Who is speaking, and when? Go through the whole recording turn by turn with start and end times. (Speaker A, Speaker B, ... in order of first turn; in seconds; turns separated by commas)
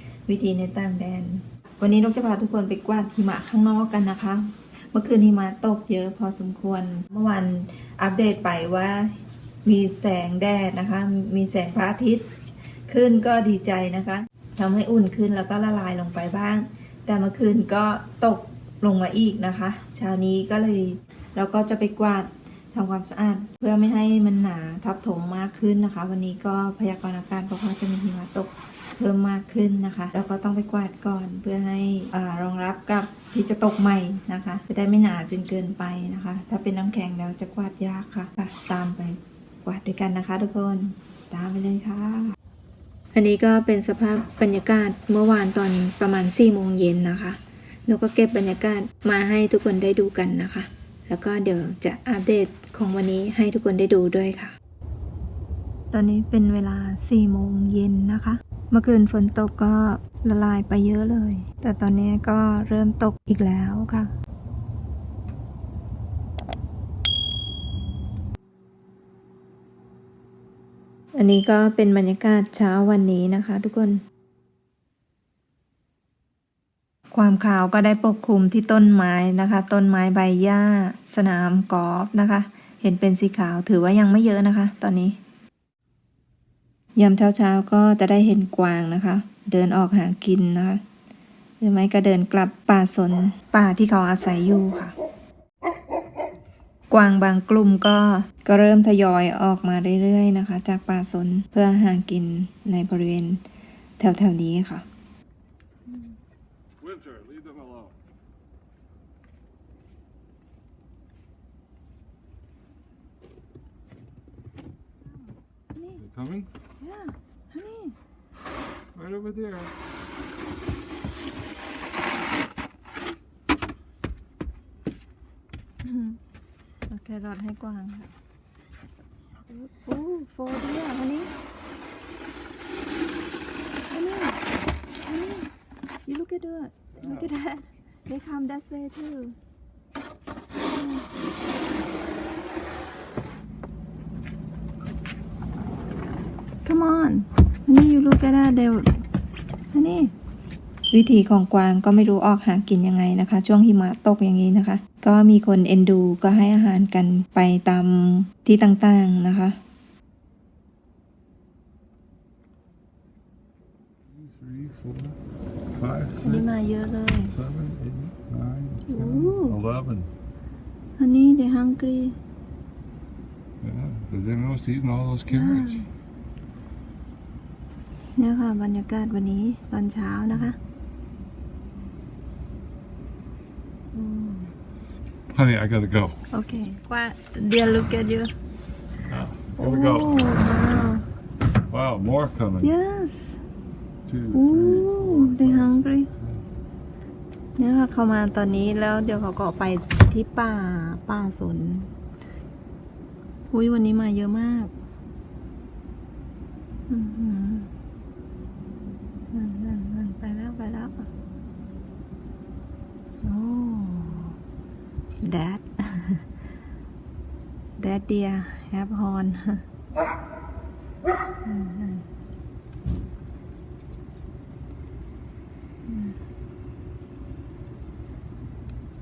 Speaker A: 0.3-12.3, Speaker A: 12.9-42.3, Speaker A: 43.1-54.5, Speaker A: 55.9-64.1, Speaker A: 71.1-74.0, Speaker A: 77.1-85.2, Speaker A: 86.9-90.8, Speaker A: 91.6-94.9, Speaker A: 96.9-103.4, Speaker A: 104.0-104.8, Speaker A: 105.9-106.1, Speaker B: 107.1-107.8, Speaker A: 115.8-116.0, Speaker B: 116.0-116.5, Speaker A: 116.8-118.0, Speaker B: 118.9-119.7, Speaker A: 125.8-126.2, Speaker A: 126.9-128.1, Speaker A: 129.5-131.3, Speaker A: 133.9-134.4, Speaker A: 135.0-135.5, Speaker A: 136.1-139.3, Speaker A: 140.7-141.1, Speaker A: 146.6-149.0, Speaker A: 149.7-150.1, Speaker A: 150.9-159.6, Speaker B: 164.1-165.2, Speaker B: 165.8-166.5, Speaker A: 166.2-167.3, Speaker B: 167.3-170.1, Speaker A: 168.9-169.6, Speaker A: 171.0-172.2, Speaker B: 173.6-175.8, Speaker A: 175.3-175.9, Speaker A: 178.2-180.6, Speaker A: 183.9-184.5, Speaker B: 185.3-186.2, Speaker A: 186.3-188.3, Speaker B: 189.1-190.2, Speaker A: 189.6-191.0, Speaker B: 191.7-192.7, Speaker A: 192.6-193.4, Speaker B: 194.1-196.4, Speaker A: 194.3-196.1, Speaker A: 197.6-201.9, Speaker A: 203.5-204.7, Speaker A: 206.9-207.7, Speaker A: 209.3-211.1, Speaker A: 213.2-214.3, Speaker A: 215.2-216.3, Speaker A: 217.8-219.6, Speaker A: 221.4-222.1, Speaker A: 225.9-226.1